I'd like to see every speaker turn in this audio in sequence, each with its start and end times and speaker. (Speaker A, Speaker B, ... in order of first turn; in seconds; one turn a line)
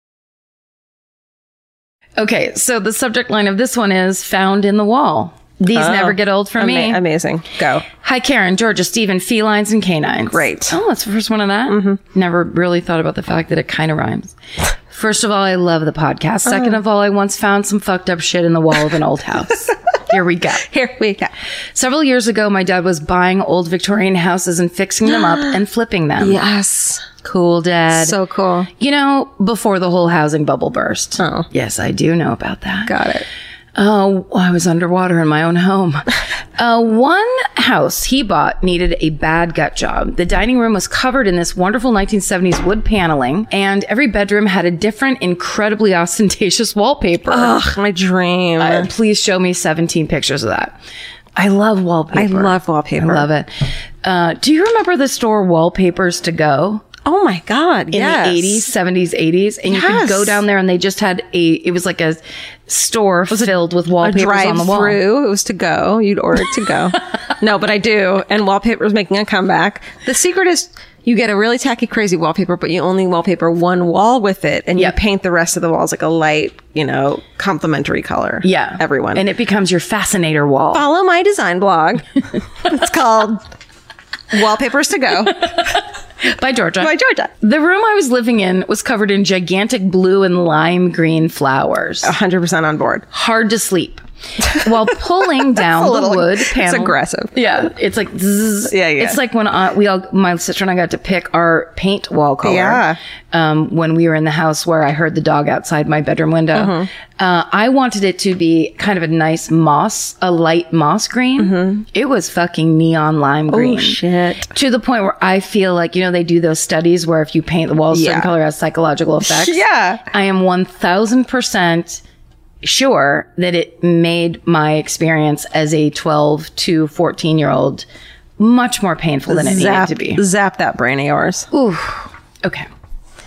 Speaker A: 2.2-7.0
Speaker B: 5.7-7.8
Speaker A: 8.0-14.3
Speaker B: 10.3-10.8
Speaker B: 11.7-12.0
Speaker A: 14.9-20.7
Speaker B: 16.4-16.8
Speaker B: 20.6-21.3
Speaker A: 21.7-26.4
Speaker B: 25.1-25.6
Speaker B: 26.2-27.1
Speaker A: 27.2-28.2
Speaker B: 27.9-28.7
Speaker A: 28.8-32.9
Speaker B: 31.2-31.5
Speaker B: 32.9-33.2
Speaker A: 33.8-47.7
Speaker B: 47.3-48.9
Speaker A: 48.6-50.8
Speaker A: 51.4-53.5
Speaker B: 52.1-53.3
Speaker A: 54.0-56.8
Speaker B: 57.0-58.7
Speaker A: 57.9-65.0
Speaker B: 59.7-60.4
Speaker B: 64.0-79.2
Speaker A: 78.4-80.8
Speaker B: 80.7-82.0
Speaker B: 82.6-83.4
Speaker B: 84.3-85.6
Speaker A: 86.2-92.1
Speaker B: 86.8-87.3
Speaker B: 92.0-93.0
Speaker A: 93.1-122.0
Speaker B: 95.4-97.4
Speaker B: 98.7-99.2
Speaker B: 102.4-103.0
Speaker B: 106.5-106.9
Speaker B: 111.4-111.8
Speaker B: 113.5-114.5
Speaker B: 117.9-118.3
Speaker B: 119.2-120.0
Speaker A: 122.6-127.8
Speaker A: 128.4-130.2
Speaker B: 129.3-131.5
Speaker A: 131.5-132.7